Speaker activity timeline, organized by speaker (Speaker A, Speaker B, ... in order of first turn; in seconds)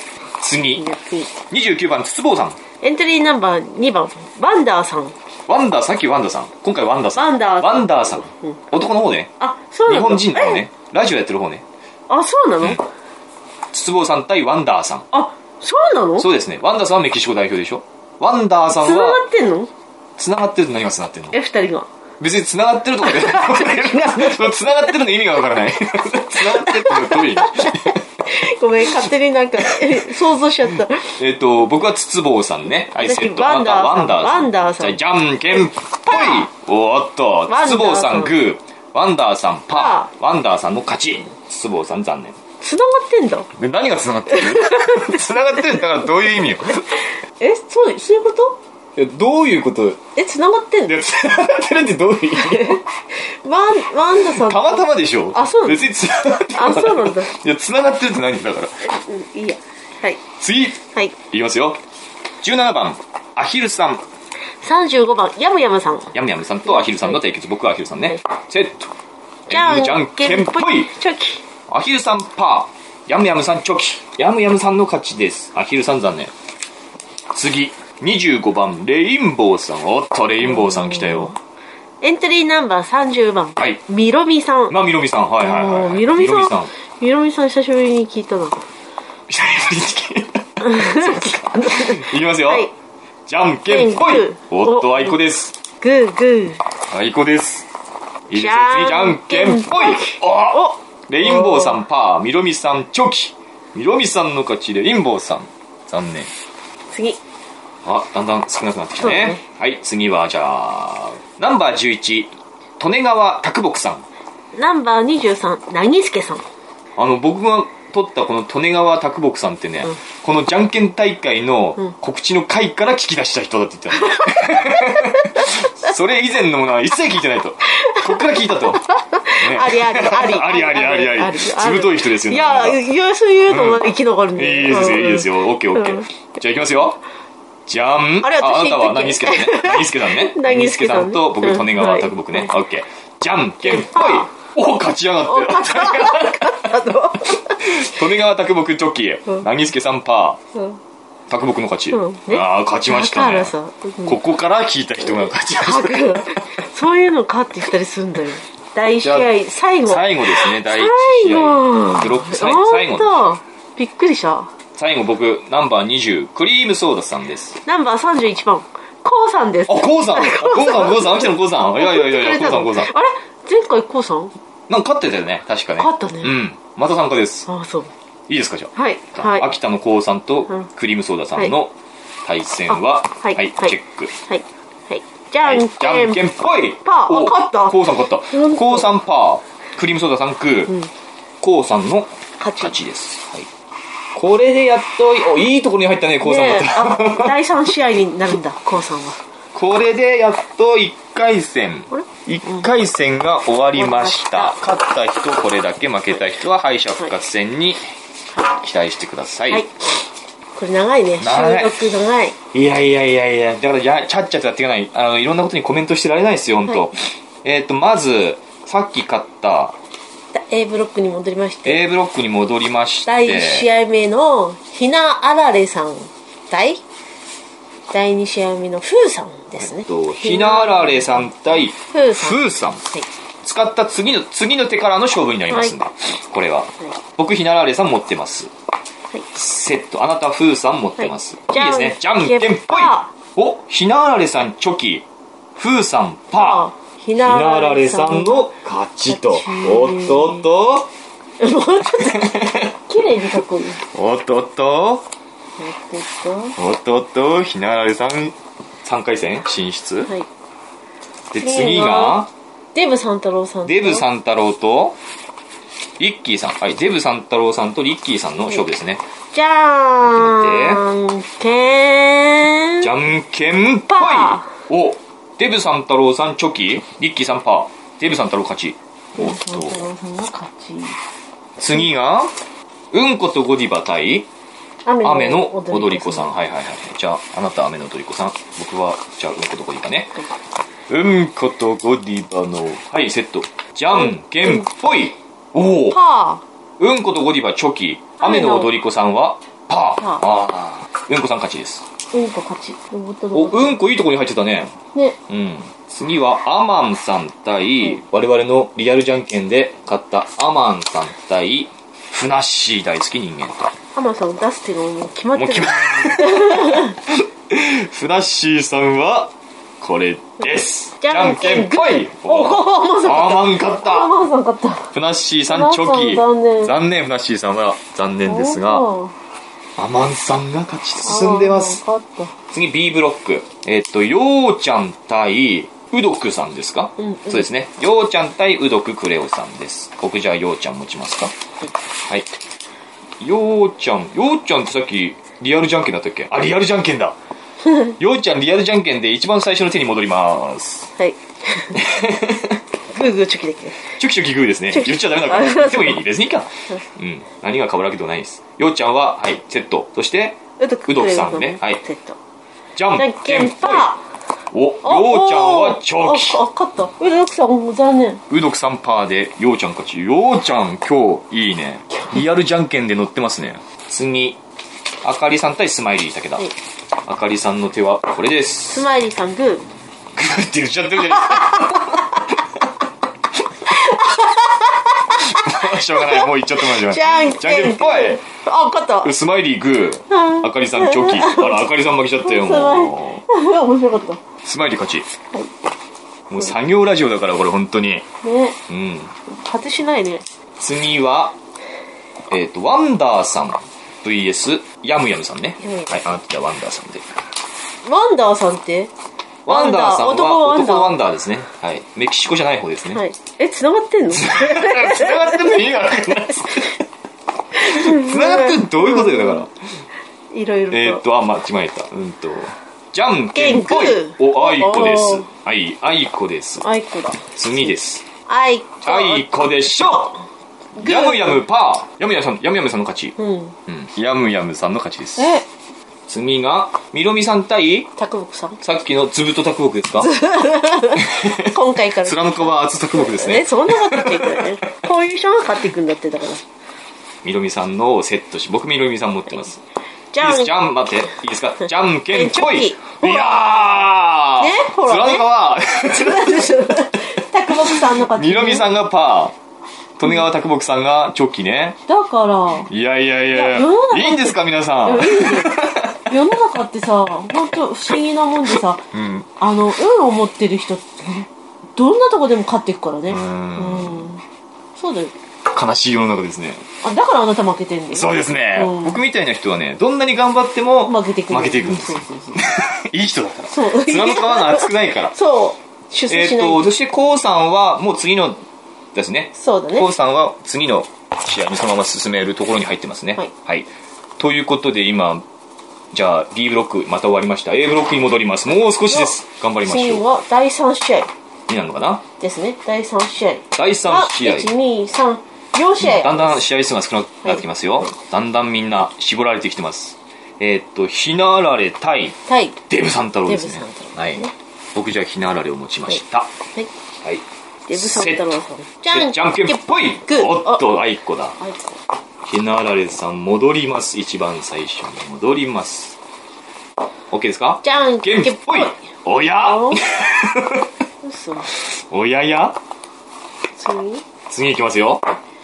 Speaker A: 0.4-0.8, 1.5-2.6, 5.5-9.3, 9.9-11.6, 13.7-15.1, 16.2-19.2, 20.2-21.4, 22.2-28.0, 29.6-30.0, 31.2-42.4, 43.5-46.8, 49.0-50.0, 50.9-52.8, 54.3-58.7, 60.4-60.8, 61.3-61.8, 62.4-64.0, 66.1-68.9, 69.5-70.9, 71.7-76.3, 77.3-81.3, 84.7-86.7, 89.3-92.7, 93.3-95.5, 96.9-97.7, 98.3-106.3, 107.8-114.0, 117.0-128.8, 129.4-132.8, 133.5-137.0, 137.7-146.6, 147.6-150.4, 151.3-153.5, 154.0-156.3, 159.0-159.3, 159.8-163.2, 164.8-167.6, 169.7-172.9, 174.7-177.5, 178.3-181.7, 182.2-184.1, 185.4-190.7, 191.4-193.5, 194.1-197.3, 199.5-207.8, 208.4-209.7, 211.2-211.9, 212.5-219.8, 221.6-223.7, 229.6-232.8, 233.4-238.5, 239.3-246.7, 247.2-250.9, 252.0-252.7, 253.9-255.0, 256.6-260.1, 261.3-262.3, 263.6-265.0, 266.0-269.0, 270.0-270.8, 272.8-279.9, 281.6-282.3, 282.9-284.3, 285.0-290.2, 290.9-296.0, 296.8-301.9, 303.3-304.7, 305.3-313.7, 315.3-324.1, 324.9-328.8, 329.8-331.8, 332.5-341.3, 343.2-347.2, 348.0-350.9, 351.7-352.6, 354.0-361.8, 362.8-363.9, 364.5-366.4, 368.3-374.4, 375.0-376.5, 377.1-378.9, 380.1-382.2, 385.2-388.2, 389.0-393.2, 394.4-395.1, 396.3-398.1, 398.7-399.1, 400.6-401.3, 402.3-407.1, 409.4-413.0, 414.1-416.8, 417.6-419.5, 420.7-426.6, 427.4-428.1, 428.8-430.2, 430.8-433.1, 433.7-435.4, 436.1-437.9, 438.6-440.1, 441.0-444.5, 447.2-449.6, 450.2-456.6, 457.5-459.3, 460.0-461.8, 462.7-466.1, 468.9-469.3, 473.1-474.1, 475.5-476.6, 477.9-485.1, 486.1-488.4, 488.9-495.2, 495.9-500.0, 501.5-502.0, 503.5-504.5, 505.8-512.2, 512.7-516.3, 517.0-518.4, 518.9-521.4, 522.2-526.0, 527.1-530.7, 531.5-532.6, 534.3-535.0
Speaker B: 0.8-1.3, 2.8-5.1, 7.1-8.6, 9.4-10.6, 12.1-12.8, 15.1-16.3, 18.8-19.7, 21.3-21.9, 23.0-24.7, 26.4-31.2, 32.9-35.0, 36.0-36.5, 37.5-38.4, 39.7-40.1, 42.6-43.5, 44.3-45.8, 47.4-48.6, 50.1-51.0, 52.3-55.9, 56.5-57.3, 58.8-60.2, 64.6-66.1, 66.7-67.2, 69.5-71.4, 80.4-81.3, 82.0-84.8, 85.4-88.7, 90.6-92.7, 93.7-95.2, 95.8-96.6, 98.3-101.8, 106.9-107.2, 109.0-109.4, 114.5-116.4, 124.0-125.7, 127.7-136.1, 138.2-142.5, 143.6-144.3, 145.2-148.0, 151.9-154.2, 155.6-164.5, 167.6-174.3, 175.8-176.3, 177.5-177.9, 178.7-179.5, 182.7-186.2, 186.8-188.9, 192.4-192.7, 196.2-199.2, 201.9-202.7, 203.8-204.6, 209.5-209.9, 210.6-212.4, 220.3-221.8, 223.1-226.8, 227.9-233.1, 235.5-235.7, 241.0-243.1, 246.3-248.5, 249.1-250.5, 251.4-253.8, 255.6-256.6, 261.4-262.2, 262.7-264.0, 269.3-272.9, 273.9-274.5, 279.1-281.0, 284.9-286.3, 293.9-294.6, 295.9-296.4, 298.2-298.7, 302.1-303.8, 313.9-317.0, 321.0-324.9, 325.5-326.8, 328.2-329.1, 331.0-332.3, 337.0-337.5, 351.0-351.8, 352.9-353.9, 354.7-356.0, 360.6-362.2, 362.9-364.0, 364.8-368.2, 378.7-379.6, 381.1-381.9, 383.7-389.1, 390.1-391.6, 392.2-394.2, 398.2-398.6, 399.3-400.2, 405.6-406.0, 407.8-408.9, 409.5-410.9, 412.9-415.6, 417.5-419.4, 420.3-421.0, 423.3-425.2, 426.6-427.7, 428.3-429.5, 430.8-431.4, 433.2-433.5, 435.2-435.4, 438.0-438.6, 440.0-446.4, 450.1-450.5, 452.1-458.7, 461.9-462.7, 463.3-468.8, 469.4-474.2, 474.8-475.1, 476.8-479.0, 480.9-482.6, 483.5-486.7, 489.3-489.9, 499.6-501.1, 502.2-506.4, 507.2-507.9, 512.3-512.6, 513.3-514.3, 517.7-520.6, 521.4-521.7, 527.6-528.8, 529.4-529.8, 531.0-531.5, 533.6-534.0